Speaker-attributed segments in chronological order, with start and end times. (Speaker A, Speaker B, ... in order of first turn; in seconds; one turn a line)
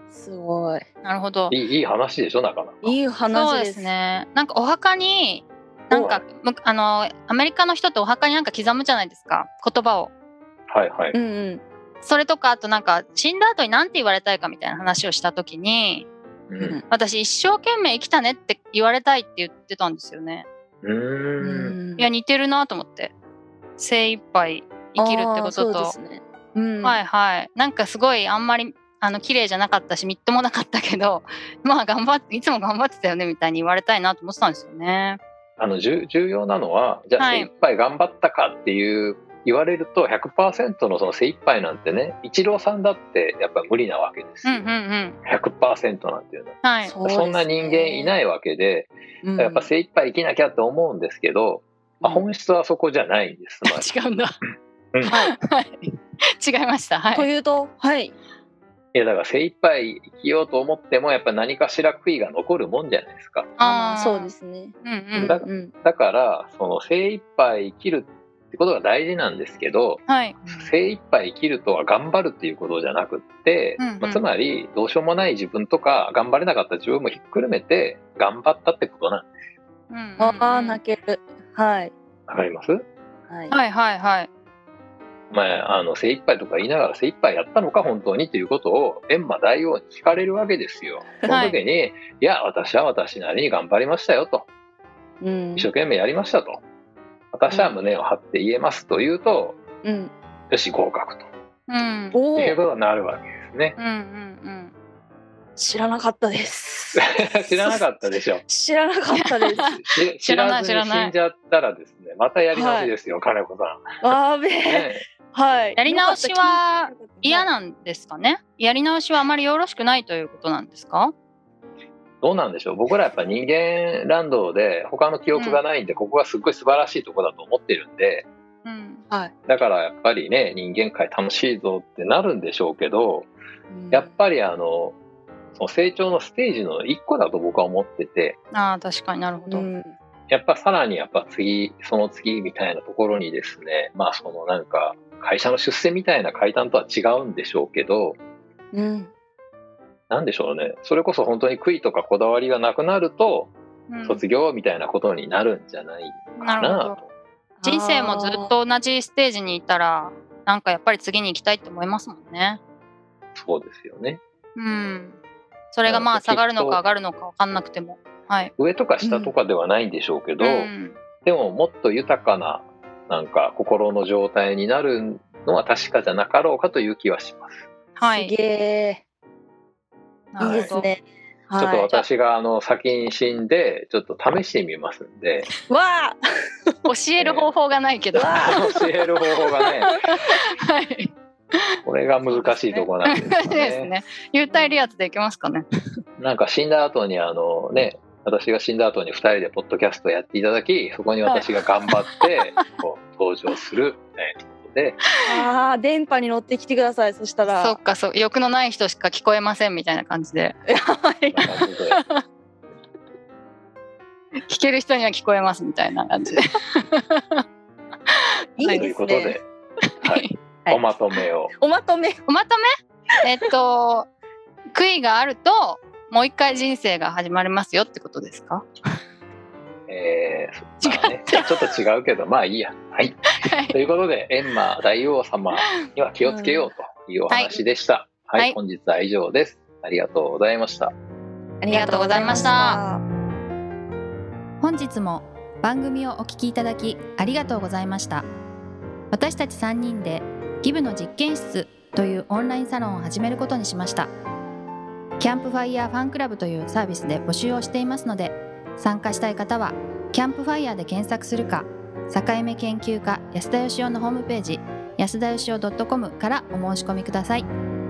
Speaker A: 0.1-0.8
Speaker B: 1.0-1.5
Speaker C: 1.5-3.0
Speaker A: 2.8-3.9
Speaker B: 3.3-10.1
Speaker A: 5.9-6.2
Speaker C: 10.7-11.2
Speaker A: 11.1-11.6
Speaker B: 12.0-16.1
Speaker C: 16.5-16.8
Speaker A: 16.6-16.8
Speaker B: 16.9-20.4
Speaker C: 20.8-21.8
Speaker A: 21.4-22.1
Speaker B: 22.0-23.1
Speaker B: 23.8-25.9
Speaker A: 25.0-27.0
Speaker B: 26.8-35.2
Speaker C: 35.6-44.6
Speaker B: 37.2-37.5
Speaker B: 44.4-45.2
Speaker C: 45.2-53.9
Speaker B: 46.6-46.9
Speaker A: 46.8-48.1
Speaker A: 49.2-49.7
Speaker A: 52.0-52.2
Speaker B: 53.6-54.3
Speaker A: 55.0-55.3
Speaker B: 55.1-57.3
Speaker A: 57.1-58.1
Speaker C: 58.9-63.5
Speaker B: 63.6-65.3
Speaker A: 63.6-65.7
Speaker C: 65.2-79.3
Speaker B: 70.1-70.7
Speaker B: 73.8-74.2
Speaker B: 79.9-80.8
Speaker A: 80.2-81.9
Speaker C: 82.3-82.8
Speaker A: 83.3-83.5
Speaker B: 83.5-84.3
Speaker C: 85.3-94.5
Speaker B: 91.3-91.6
Speaker A: 95.2-95.7
Speaker C: 95.5-96.6
Speaker C: 97.3-99.6
Speaker A: 99.8-100.1
Speaker C: 100.5-101.3
Speaker B: 101.7-102.2
Speaker A: 102.1-102.6
Speaker C: 102.3-103.8
Speaker B: 103.8-104.7
Speaker A: 105.5-107.8
Speaker C: 107.0-108.4
Speaker A: 108.4-109.8
Speaker B: 109.4-109.7
Speaker C: 109.7-114.1
Speaker B: 110.2-111.1
Speaker A: 112.5-112.9
Speaker A: 114.0-117.5
Speaker C: 114.6-115.0
Speaker B: 115.8-121.1
Speaker C: 122.2-128.3
Speaker B: 125.3-125.6
Speaker B: 128.6-129.0
Speaker C: 129.5-133.3
Speaker A: 133.7-134.1
Speaker C: 133.9-134.9
Speaker C: 135.5-138.4
Speaker B: 138.5-139.7
Speaker A: 139.5-139.9
Speaker C: 140.3-148.2
Speaker A: 148.7-149.1
Speaker C: 150.1-153.5
Speaker B: 153.9-154.2
Speaker C: 154.0-157.1
Speaker B: 156.4-156.9
Speaker A: 157.6-158.5
Speaker B: 157.6-162.6
Speaker C: 163.3-164.2
Speaker B: 164.6-165.2
Speaker B: 165.7-168.5
Speaker C: 165.8-166.8
Speaker C: 168.6-170.7
Speaker A: 169.0-169.3
Speaker B: 170.4-171.0
Speaker C: 171.2-177.7
Speaker B: 177.9-178.3
Speaker A: 178.1-179.0
Speaker B: 180.3-180.9
Speaker C: 180.4-180.7
Speaker A: 180.4-182.0
Speaker C: 181.6-185.5
Speaker A: 185.7-186.2
Speaker B: 186.8-188.5
Speaker C: 187.2-187.5
Speaker A: 188.1-188.7
Speaker C: 188.3-189.9
Speaker B: 190.1-191.6
Speaker C: 191.8-193.9
Speaker B: 192.2-195.6
Speaker A: 194.5-194.8
Speaker C: 196.2-205.0
Speaker B: 201.3-202.6
Speaker A: 205.2-207.8
Speaker B: 207.4-210.6
Speaker A: 210.7-211.5
Speaker C: 211.3-212.0
Speaker B: 211.4-212.2
Speaker B: 214.4-217.4
Speaker B: 218.1-218.9
Speaker A: 218.6-219.4
Speaker C: 218.7-219.4
Speaker B: 220.0-220.4
Speaker C: 220.0-221.5
Speaker A: 221.6-222.2
Speaker B: 222.3-222.6
Speaker B: 223.2-224.1
Speaker B: 224.7-228.7
Speaker C: 229.9-240.9
Speaker B: 230.8-231.5
Speaker B: 233.4-233.8
Speaker A: 236.2-236.7
Speaker B: 237.3-237.6
Speaker A: 241.6-243.0
Speaker B: 241.7-242.8
Speaker B: 244.6-248.2
Speaker B: 249.1-254.1
Speaker B: 255.2-267.5